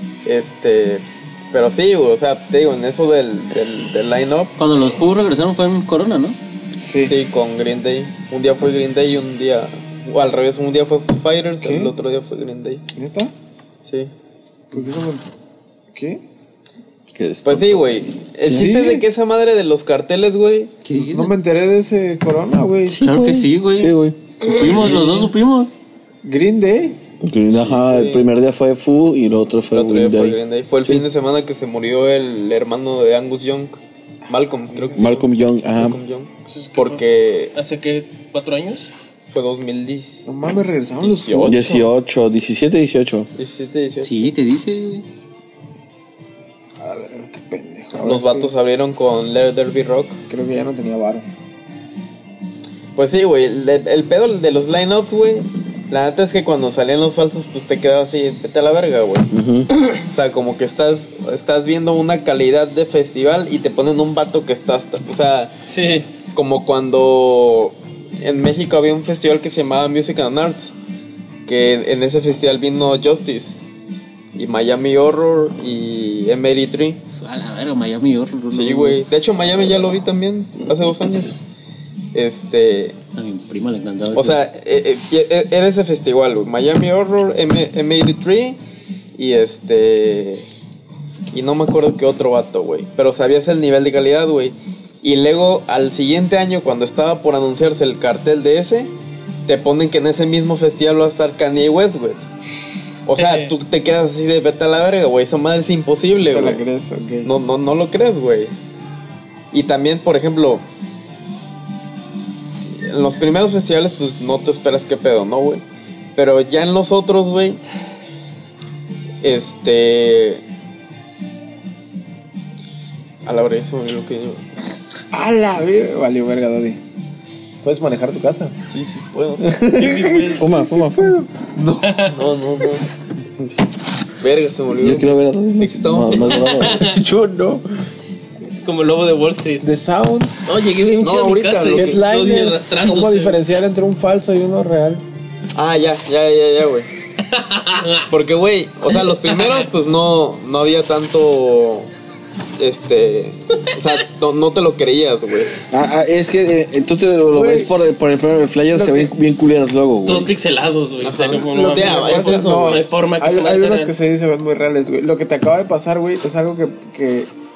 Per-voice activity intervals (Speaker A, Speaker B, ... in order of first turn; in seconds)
Speaker A: 0.2-4.5, 7.0-12.8, 13.8-14.1, 17.4-20.7, 27.6-28.3, 29.7-33.8, 34.3-37.5, 39.3-40.3, 41.0-41.6, 43.4-44.2, 48.0-50.2, 53.0-59.3, 59.9-65.6, 66.3-70.7, 71.5-73.5, 74.3-77.0, 78.5-81.3, 82.1-83.0, 84.1-88.6, 89.2-90.5, 91.3-98.9, 99.5-102.2, 103.0-106.6, 107.2-108.5, 109.5-110.6, 112.8-115.6, 116.2-117.6, 119.2-120.4, 123.2-124.4, 128.7-129.6, 131.5-132.9, 134.2-136.6, 141.0-142.0, 145.5-146.9, 148.1-151.9, 152.6-155.5, 161.0-162.8
Speaker B: 4.6-6.4, 20.8-21.3, 22.9-25.7, 44.0-45.0, 77.2-79.0, 83.2-84.4
Speaker C: 6.9-7.1, 11.6-11.9, 12.9-13.3, 14.7-15.2, 15.9-16.2, 18.5-19.0, 21.0-23.0, 24.4-25.3, 26.2-27.0, 34.7-35.1, 40.2-41.9, 46.8-48.5, 50.3-51.2, 106.3-107.3, 125.1-126.8, 127.6-128.6, 129.4-131.3, 136.8-137.7, 139.6-140.4, 141.7-145.0, 157.3-157.7, 158.7-159.1, 161.5-167.3
Speaker D: 17.1-18.7, 22.9-24.1, 27.2-31.0, 34.9-36.0, 41.4-43.3, 59.3-59.7, 129.9-131.2, 134.7-136.9, 155.7-160.3
Speaker E: 36.7-37.0, 37.5-38.9, 65.7-66.1, 103.2-103.5, 129.8-130.5, 131.8-132.2, 136.3-137.0, 138.6-139.6, 140.4-143.4, 147.3-148.1, 149.2-149.6, 160.1-163.9